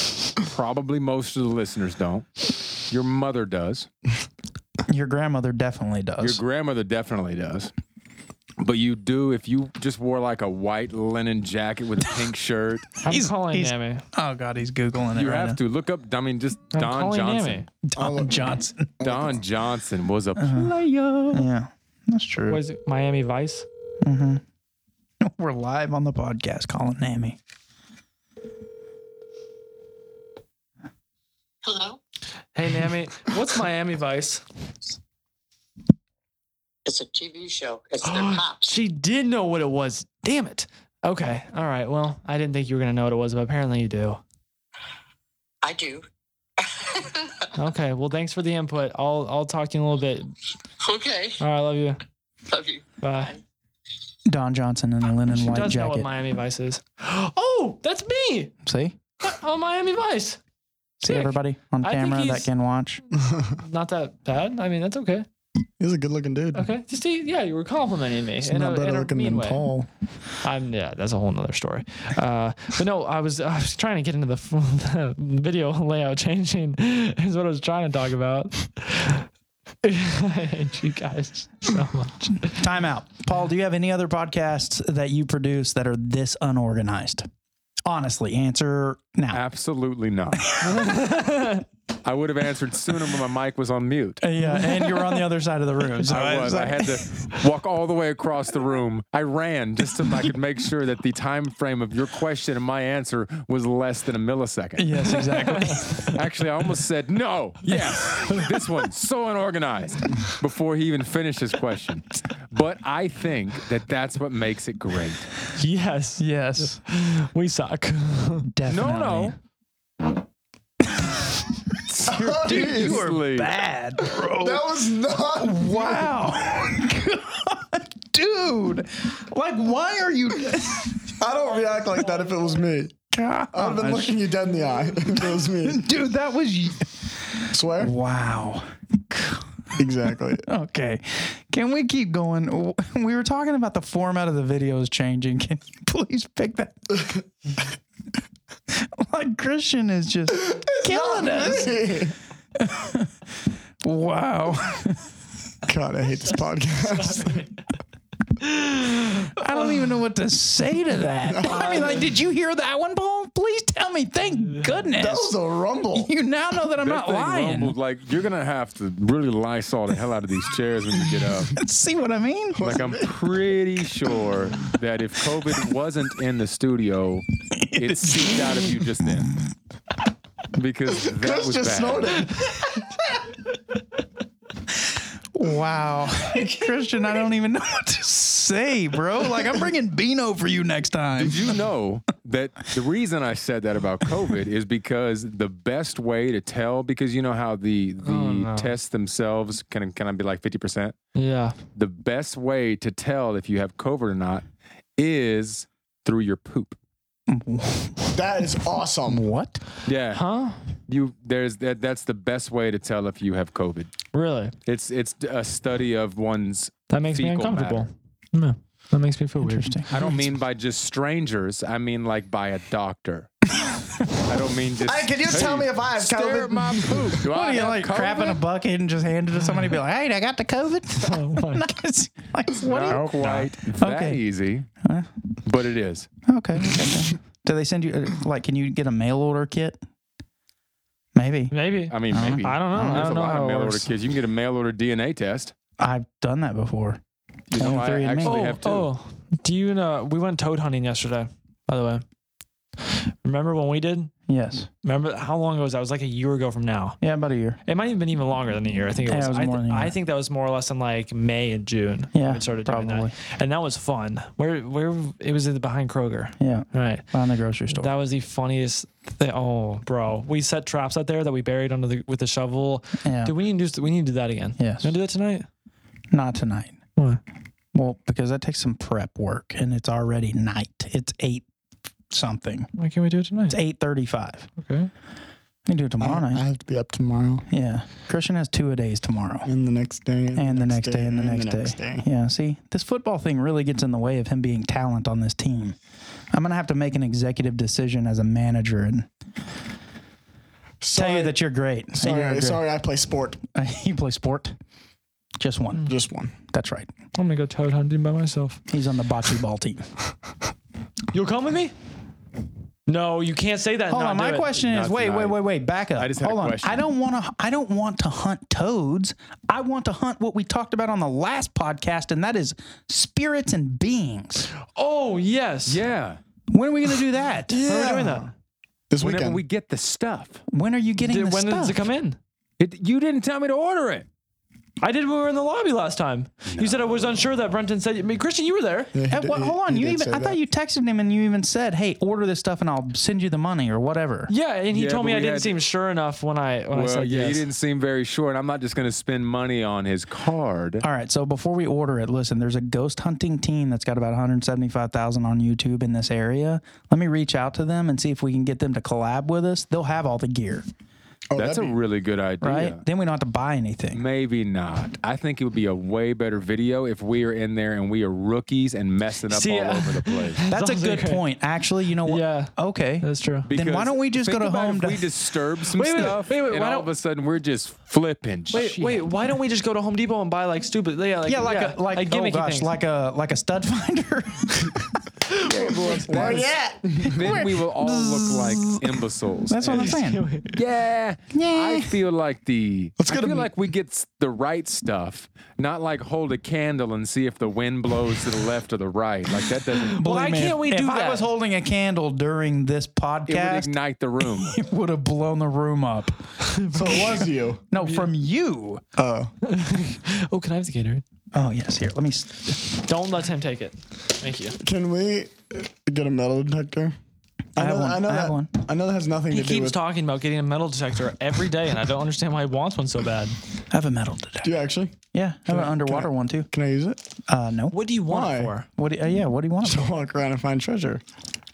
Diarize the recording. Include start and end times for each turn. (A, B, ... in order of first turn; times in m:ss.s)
0:00.4-0:03.9 A
0:04.9-0:06.4 B
0:06.2-0:07.7 A
0:08.6-0:12.9 A
0:13.0-0:14.0 C
0:13.0-0:15.6 B
0:15.1-0:17.6 A
0:16.7-0:17.6 C
0:17.8-0:18.9 B
0:18.0-0:19.4 D
0:19.0-0:21.4 A
0:20.4-0:22.6 B
0:22.5-0:23.6 C
0:24.0-0:24.4 B
0:25.2-0:27.4 B
0:31.6-0:32.0 E
0:32.5-0:34.4 C
0:36.8-0:38.7 E
0:38.0-0:44.2 C
0:45.6-0:46.0 E
0:46.6-0:47.5 E
0:47.5-0:50.3 C
0:50.8-0:51.4 E
0:51.4-0:52.0 C
0:52.5-0:53.4 E
0:53.0-0:53.3 C
0:54.2-0:56.1 B
0:55.3-0:58.5 C
0:58.6-0:59.0 B
0:59.2-1:00.4 C
1:01.0-1:02.5 C
1:01.0-1:03.0 B
1:03.6-1:05.2 C
1:05.8-1:06.7 D
1:06.5-1:09.6 C
1:08.4-1:09.9 D
1:10.4-1:19.3 C
1:19.8-1:22.6 C
1:22.5-1:27.3 B
1:27.8-1:29.4 B
1:29.3-1:30.5 A
1:30.4-1:30.9 B
1:30.6-1:31.6 C
1:32.0-1:34.2 A
1:34.2-1:37.3 B
1:34.4-1:35.2 C
1:36.0-1:45.3 A
1:44.8-1:46.1 B
1:45.0-1:46.1 C
1:46.0-1:55.3 A
1:47.7-1:48.4 C
1:55.6-1:58.5 C
1:56.2-1:56.8 B
1:58.5-1:59.4 B
1:58.7-1:59.4 A
2:01.9-2:03.5 A
2:02.0-2:04.7 B
2:02.1-2:03.0 D
2:04.2-2:06.4 D
2:05.3-2:11.1 B
2:11.2-2:13.0 D
2:13.1-2:14.2 B
2:13.5-2:15.8 D
2:15.1-2:19.5 B
2:17.5-2:17.9 D
2:19.7-2:20.4 D
2:20.4-2:27.0 B
2:28.7-2:31.9 B
2:30.4-2:32.2 D
2:32.5-2:33.1 B
2:33.8-2:35.1 B
2:35.6-2:37.4 D
2:36.8-2:37.5 C
2:38.4-2:39.3 C
2:39.2-2:45.3 B
2:41.3-2:42.0 D
2:41.4-2:42.1 C
2:45.0-2:46.1 D
2:45.9-2:47.7 B
2:46.8-2:51.6 A
2:51.5-2:52.7 B
2:52.5-2:53.2 D
2:52.6-2:59.4 A
2:57.5-2:58.4 B
3:00.5-3:02.3 A
3:01.0-3:02.8 D
3:05.3-3:11.6 B
3:11.2-3:20.9 A
3:18.0-3:18.7 C
3:21.1-3:21.6 C
3:21.7-3:24.4 A
3:25.0-3:26.8 A
3:27.3-3:28.2 B
3:28.1-3:29.2 D
3:29.1-3:29.6 B
3:29.8-3:30.2 A
3:30.1-3:30.6 C
3:30.9-3:33.9 A
3:34.1-3:34.5 C
3:34.6-3:37.9 A
3:36.9-3:39.8 C
3:39.4-3:40.1 B
3:39.9-3:43.3 A
3:44.0-3:48.4 A
3:44.8-3:47.1 D
3:47.2-3:54.2 B
3:51.0-3:51.7 C
3:52.6-3:54.7 A
3:53.1-3:53.5 C
3:54.8-3:55.1 B
3:55.4-3:56.1 A
3:56.2-3:59.8 B
4:01.1-4:03.1 B
4:01.5-4:03.9 C
4:01.9-4:05.5 A
4:05.8-4:07.0 B
4:07.5-4:08.6 B
4:07.5-4:08.9 A
4:08.2-4:12.0 C
4:12.9-4:14.1 C
4:14.3-4:14.7 B
4:14.8-4:17.0 C
4:17.0-4:17.6 B
4:17.6-4:27.1 C
4:19.0-4:19.9 B
4:22.1-4:23.1 B
4:26.4-4:27.9 B
4:27.7-4:35.5 C
4:33.0-4:33.3 B
4:34.6-4:34.9 B
4:36.1-4:36.8 B
4:37.7-4:41.4 B
4:42.1-4:42.7 B
4:42.7-4:43.6 C
4:43.5-4:44.5 B
4:44.6-4:44.9 C
4:45.6-4:46.4 B
4:46.0-4:47.4 D
4:47.5-4:49.5 B
4:49.4-4:52.0 D
4:50.3-4:55.8 B
4:56.3-4:59.1 B
5:00.8-5:01.4 D
5:00.9-5:02.6 B
5:02.0-5:03.4 D
5:03.5-5:04.5 B
5:05.4-5:05.9 B
5:05.8-5:06.3 D
5:06.5-5:06.9 B
5:07.2-5:08.6 C
5:08.7-5:09.8 B
5:11.1-5:11.7 C
5:12.9-5:14.6 C
5:13.9-5:24.5 B
5:14.6-5:16.8 A
5:24.7-5:25.8 C
5:25.6-5:26.2 A
5:26.5-5:27.6 B
5:27.5-5:28.3 D
5:27.6-5:28.3 C
5:28.9-5:29.4 D
5:29.0-5:30.4 A
5:30.5-5:31.8 B
5:31.0-5:32.2 C
5:32.6-5:34.0 A
5:34.8-5:38.9 C
5:36.5-5:37.2 A
5:38.9-5:40.4 D
5:39.1-5:44.3 B
5:44.3-5:47.4 C
5:44.7-5:45.6 A
5:46.7-5:50.8 A
5:50.8-6:00.6 B
6:01.3-6:01.8 D
6:01.4-6:02.8 A
6:02.4-6:04.0 B
6:03.9-6:10.4 A
6:09.3-6:11.2 C
6:10.5-6:15.1 B
6:12.0-6:13.5 C
6:13.5-6:19.0 A
6:15.7-6:16.9 C
6:18.5-6:22.7 C
6:21.2-6:25.0 B
6:25.3-6:40.0 A
6:25.5-6:27.1 D
6:27.0-6:30.2 B
6:29.7-6:30.6 C
6:31.3-6:32.0 B
6:33.0-6:33.5 D
6:39.9-6:41.3 C
6:39.9-6:46.2 B
6:43.3-6:44.6 A
6:46.4-6:47.2 C
6:46.7-6:47.6 D
6:47.7-6:48.8 B
6:47.8-6:48.1 C
6:49.0-6:49.3 D
6:49.4-6:51.0 C
6:51.3-6:52.6 B
6:52.8-6:54.6 C
6:54.6-6:56.9 D
6:57.6-6:59.8 D
6:57.6-6:58.5 B
6:59.3-7:03.4 C
7:03.7-7:04.5 B
7:04.4-7:05.0 D
7:05.1-7:06.5 B
7:05.5-7:07.0 D
7:07.3-7:07.8 B
7:07.7-7:08.7 C
7:08.1-7:08.5 D
7:08.8-7:09.9 B
7:09.6-7:11.0 D